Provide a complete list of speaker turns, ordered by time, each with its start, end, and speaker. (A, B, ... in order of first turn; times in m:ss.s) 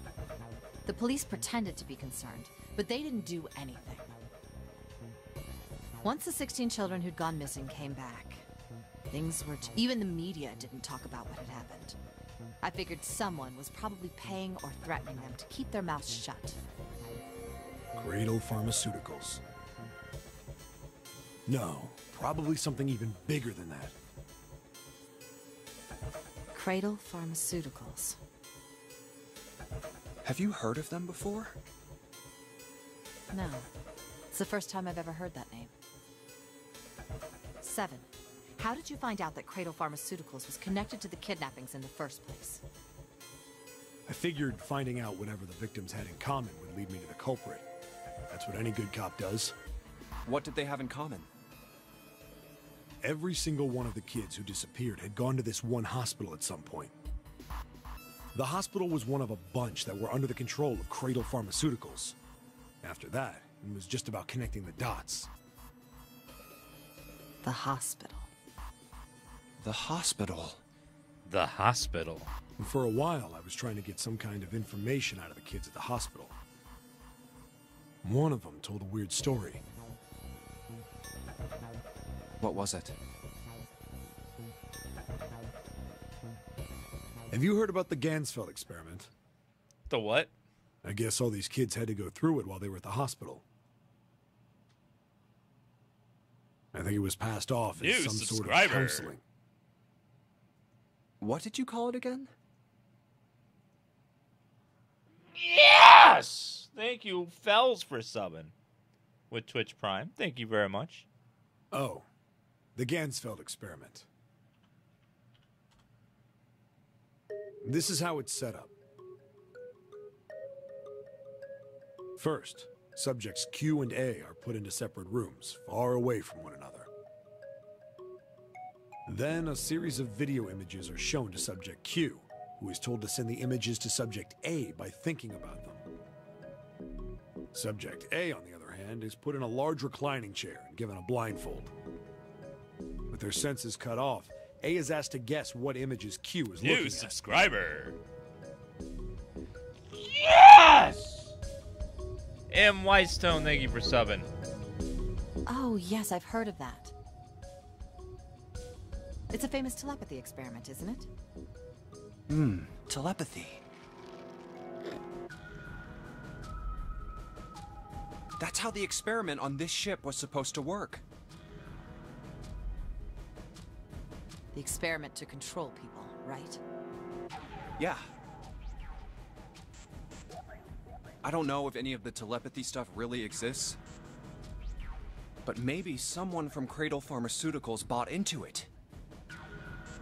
0:00.8-0:04.1 A
0:06.0-0:08.4 A
0:09.1-0:12.0 A
0:12.6-0:16.6 A
0:18.0-0:19.4 B
0:21.5-0:24.0 B
0:26.5-0:28.2 A
0:30.2-0:31.6 C
0:33.3-0:33.7 A
0:34.3-0:35.7 A
0:37.6-0:42.6 A
0:44.1-0:47.7 B
0:48.3-0:49.6 B
0:50.2-0:51.3 C
0:53.0-0:57.0 B
0:58.3-1:02.2 B
1:02.8-1:05.3 B
1:07.4-1:08.3 A
1:09.6-1:10.6 C
1:11.3-1:12.3 D
1:12.6-1:16.4 B
1:18.0-1:19.6 B
1:22.4-1:23.0 C
1:27.3-1:29.1 B
1:29.9-1:30.3 D
1:30.8-1:33.4 B
1:36.7-1:39.2 B
1:37.8-1:39.1 D
1:41.2-1:42.3 C
1:45.3-1:48.5 D
1:49.3-1:51.1 D
1:51.7-1:52.1 B
1:52.8-1:54.1 B
1:57.6-1:58.7 B
2:02.2-2:06.9 B
2:09.1-2:15.8 B
2:17.5-2:21.7 B
2:23.1-2:27.2 B
2:26.6-2:28.0 D
2:29.9-2:31.3 D
2:32.5-2:34.3 D
2:35.5-2:36.9 A
2:39.3-2:41.1 A
2:42.3-2:43.6 C
2:48.4-2:51.0 C
2:54.5-2:56.6 A
2:57.8-2:58.1 C
3:01.2-3:03.8 C
3:05.4-3:08.7 C